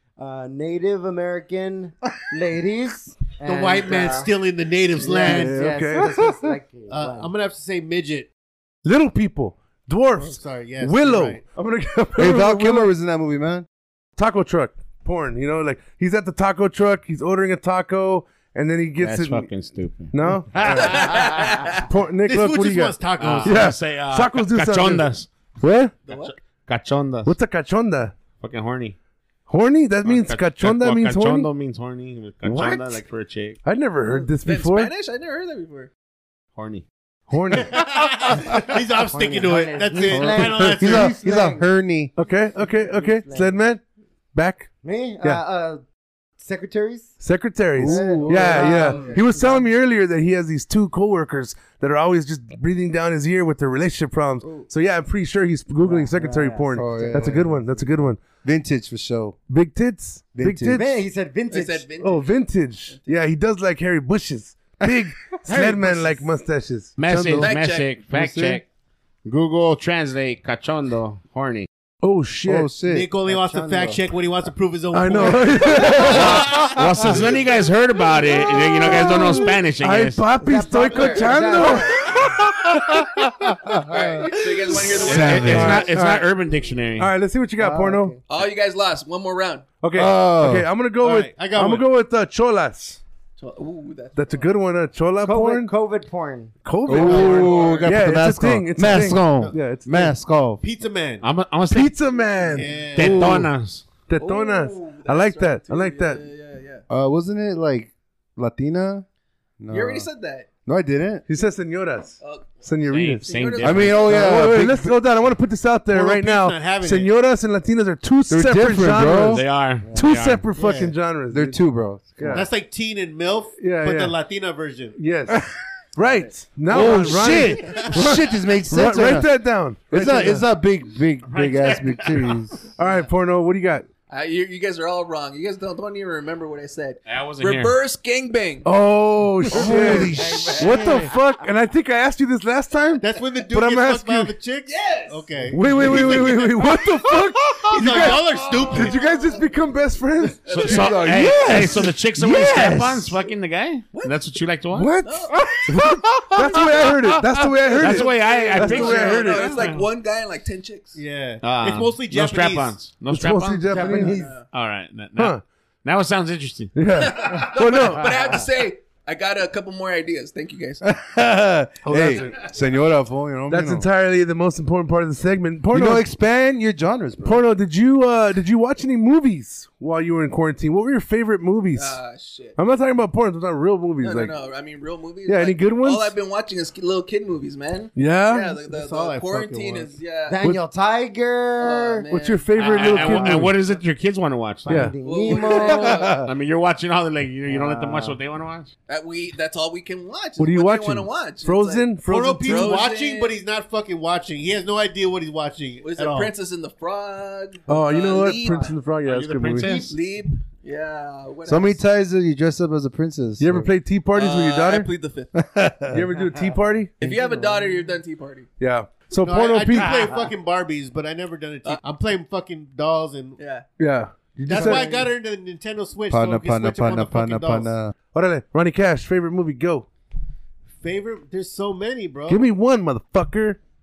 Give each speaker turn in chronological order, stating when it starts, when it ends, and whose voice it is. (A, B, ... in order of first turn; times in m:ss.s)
0:00.2-0:04.3 A
0:03.4-0:05.6 B
0:05.0-0:07.3 A
0:05.2-0:06.5 C
0:06.9-0:08.3 B
0:08.8-0:12.9 C
0:10.2-0:11.4 B
0:12.2-0:13.6 D
0:14.2-0:19.5 C
0:19.0-0:20.1 E
0:20.1-0:25.9 C
0:20.6-0:21.8 F
0:20.8-0:21.1 B
0:22.2-0:23.6 B
0:23.2-0:25.3 E
0:26.1-0:26.3 F
0:26.1-0:27.4 E
0:27.2-0:28.2 C
0:28.4-0:29.0 E
0:29.5-0:31.5 C
0:30.0-0:33.6 E
0:32.4-0:32.8 C
0:33.6-0:34.9 C
0:34.4-0:35.9 F
0:36.6-0:36.8 E
0:37.3-0:38.3 C
0:37.6-0:41.2 B
0:39.1-0:41.6 A
0:40.1-0:42.1 D
0:42.1-0:43.8 C
0:42.8-0:43.6 A
0:44.3-0:44.7 C
0:44.8-0:45.8 A
0:46.4-0:47.1 A
0:47.2-0:58.2 C
0:47.8-0:49.2 D
0:47.8-0:49.6 A
0:55.8-0:57.6 A
0:56.7-0:57.6 D
0:58.4-0:59.4 D
0:59.5-1:01.0 C
1:00.4-1:00.8 D
1:00.7-1:01.9 A
1:01.5-1:03.2 F
1:02.0-1:07.5 C
1:05.5-1:06.2 A
1:07.0-1:08.6 E
1:07.4-1:07.9 F
1:08.1-1:08.6 D
1:09.2-1:11.7 E
1:12.0-1:12.8 C
1:12.4-1:13.1 D
1:12.8-1:16.7 B
1:13.2-1:14.0 A
1:14.9-1:17.2 C
1:16.0-1:20.3 E
1:18.8-1:23.8 C
1:20.4-1:22.1 A
1:23.9-1:25.9 F
1:25.0-1:25.8 D
1:25.0-1:27.1 E
1:25.1-1:26.3 C
1:27.0-1:28.1 C
1:27.6-1:28.2 A
1:28.3-1:29.7 F
1:29.8-1:33.0 C
1:29.9-1:30.7 D
1:31.0-1:31.9 B
1:33.4-1:34.5 F
1:34.2-1:35.7 C
1:35.2-1:36.5 A
1:36.6-1:40.1 C
1:36.8-1:40.6 D
1:37.0-1:37.9 B
1:37.2-1:37.9 F
1:38.8-1:39.5 E
1:40.6-1:41.2 B
1:41.2-1:42.0 E
1:41.7-1:43.2 C
1:42.4-1:43.3 B
1:42.9-1:43.8 E
1:43.0-1:43.5 D
1:44.1-1:46.2 C
1:44.2-1:46.8 F
1:46.9-1:49.0 D
1:49.6-1:50.1 D
1:49.7-1:50.5 F
1:50.6-1:51.2 D
1:51.3-1:53.4 C
1:52.2-1:52.6 F
1:52.8-1:54.3 E
1:53.2-1:54.5 F
1:53.6-1:55.0 D
1:54.0-2:01.6 C
1:55.9-1:57.1 B
1:58.3-1:59.4 D
1:59.2-2:00.5 E
2:00.5-2:00.9 B
2:01.3-2:02.4 D
2:02.2-2:02.5 C
2:02.3-2:05.0 B
2:03.6-2:04.2 C
2:05.0-2:10.4 C
2:06.7-2:09.3 D
2:09.9-2:12.6 D
2:11.3-2:12.4 E
2:12.8-2:13.8 C
2:14.1-2:18.6 F
2:17.0-2:17.8 E
2:18.6-2:24.4 C
2:19.5-2:20.8 D
2:19.9-2:20.4 F
2:23.0-2:26.6 B
2:24.6-2:26.2 F
2:25.5-2:32.8 C
2:27.7-2:29.3 B
2:30.5-2:35.0 E
2:30.5-2:30.8 F
2:30.6-2:33.1 D
2:34.8-2:39.7 C
2:35.0-2:35.5 F
2:35.5-2:37.6 D
2:37.7-2:39.8 E
2:37.8-2:41.0 F
2:41.0-2:42.8 B
2:41.4-2:46.7 E
2:43.1-2:44.3 C
2:43.7-2:44.3 A
2:43.9-2:44.5 F
2:45.2-2:45.4 C
2:46.7-2:48.4 C
2:47.0-2:50.9 F
2:50.8-2:53.8 D
2:51.8-2:52.4 C
2:53.5-2:56.1 C
2:55.7-2:57.4 D
2:57.2-3:02.0 C
3:01.7-3:02.6 F
3:02.6-3:04.3 C
3:04.0-3:10.4 F
3:05.2-3:06.1 C
3:08.0-3:08.6 C
3:08.6-3:09.9 B
3:10.3-3:12.0 A
3:11.6-3:13.4 F
3:12.1-3:13.6 C
3:12.5-3:14.9 E
3:14.7-3:16.0 A
3:14.7-3:15.0 C
3:15.0-3:16.3 F
3:15.8-3:18.7 E
3:17.5-3:18.1 A
3:18.9-3:21.9 F
3:20.4-3:22.8 C
3:22.1-3:26.3 B
3:22.4-3:23.4 F
3:25.8-3:28.7 F
3:27.7-3:29.8 C
3:29.0-3:29.9 E
3:29.6-3:31.8 F
3:31.4-3:33.7 D
3:33.4-3:34.9 C
3:34.1-3:35.4 F
3:35.4-3:36.0 D
3:35.9-3:37.0 C
3:37.0-3:38.5 F
3:38.6-3:40.2 C
3:39.2-3:43.4 B
3:43.4-3:43.6 F
3:43.8-3:45.0 C
3:44.4-3:47.7 B
3:46.1-3:47.9 D
3:48.1-3:49.8 C
3:50.8-3:52.4 B
3:52.3-3:53.6 C